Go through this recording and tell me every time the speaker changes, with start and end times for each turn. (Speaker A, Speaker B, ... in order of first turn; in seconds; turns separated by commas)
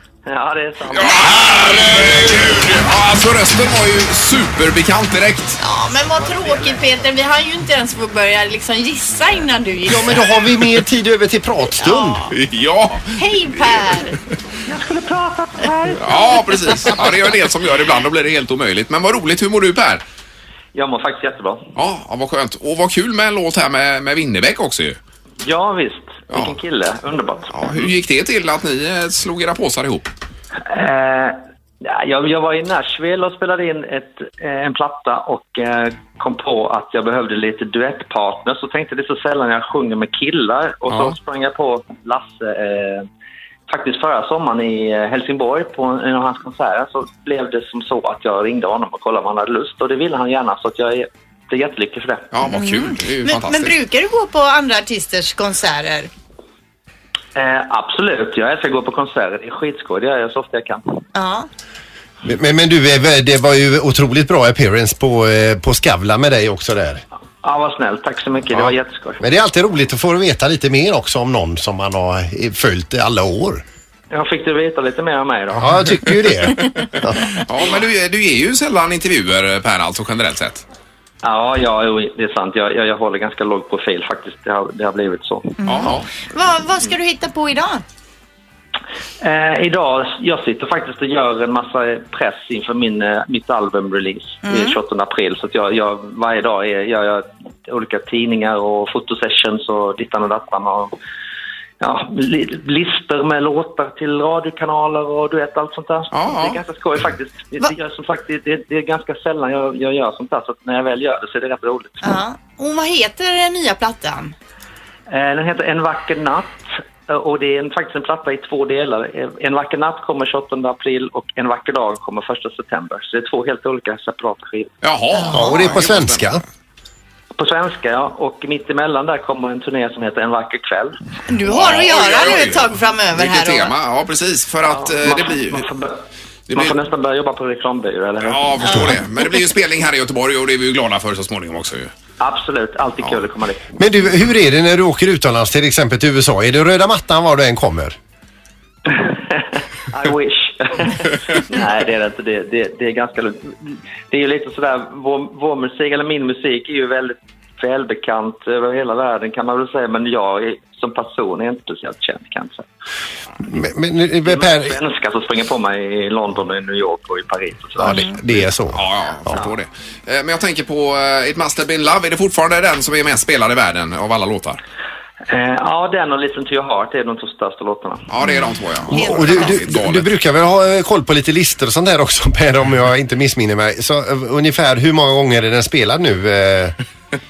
Speaker A: 0.3-2.3, Speaker B: 0.9-5.6, Speaker C: 5.6-10.3, Speaker A: 6.3-6.8, Speaker D: 9.9-12.2, Speaker C: 11.8-12.3, Speaker B: 12.3-14.2, Speaker C: 13.2-14.1, Speaker A: 14.7-17.3, Speaker B: 16.0-20.0, Speaker A: 20.7-21.7, Speaker B: 21.8-25.0, Speaker A: 25.4-27.5, Speaker B: 27.5-30.1, Speaker A: 30.6-43.1, Speaker A: 43.7-52.3, Speaker B: 52.3-53.8, Speaker C: 52.5-56.1, Speaker A: 57.4-61.0, Speaker C: 61.1-61.5, Speaker D: 62.2-67.0, Speaker A: 67.4-69.2, Speaker D: 69.2-73.6, Speaker A: 74.1-76.3, Speaker D: 75.6-77.4, Speaker B: 77.4-80.7, Speaker A: 81.2-86.0, Speaker C: 85.6-87.8, Speaker B: 85.7-86.1, Speaker A: 89.2-100.9, Speaker C: 94.4-94.8, Speaker A: 101.8-112.0, Speaker B: 106.1-106.6, Speaker C: 112.0-114.3, Speaker A: 115.1-124.7, Speaker B: 124.8-126.4, Speaker C: 125.1-125.7, Speaker D: 125.3-126.4, Speaker A: 127.4-131.0, Speaker C: 131.3-133.7, Speaker B: 131.5-135.7, Speaker A: 134.7-138.7, Speaker B: 138.2-141.9, Speaker D: 138.7-139.0, Speaker A: 142.2-143.8, Speaker D: 143.8-148.0, Speaker A: 148.9-162.7, Speaker D: 163.4-164.8, Speaker A: 164.2-168.1, Speaker D: 167.8-168.8, Speaker C: 167.8-168.2, Speaker B: 168.3-174.6, Speaker A: 175.3-178.0, Speaker B: 178.1-180.1, Speaker D: 178.9-186.8, Speaker C: 179.0-179.5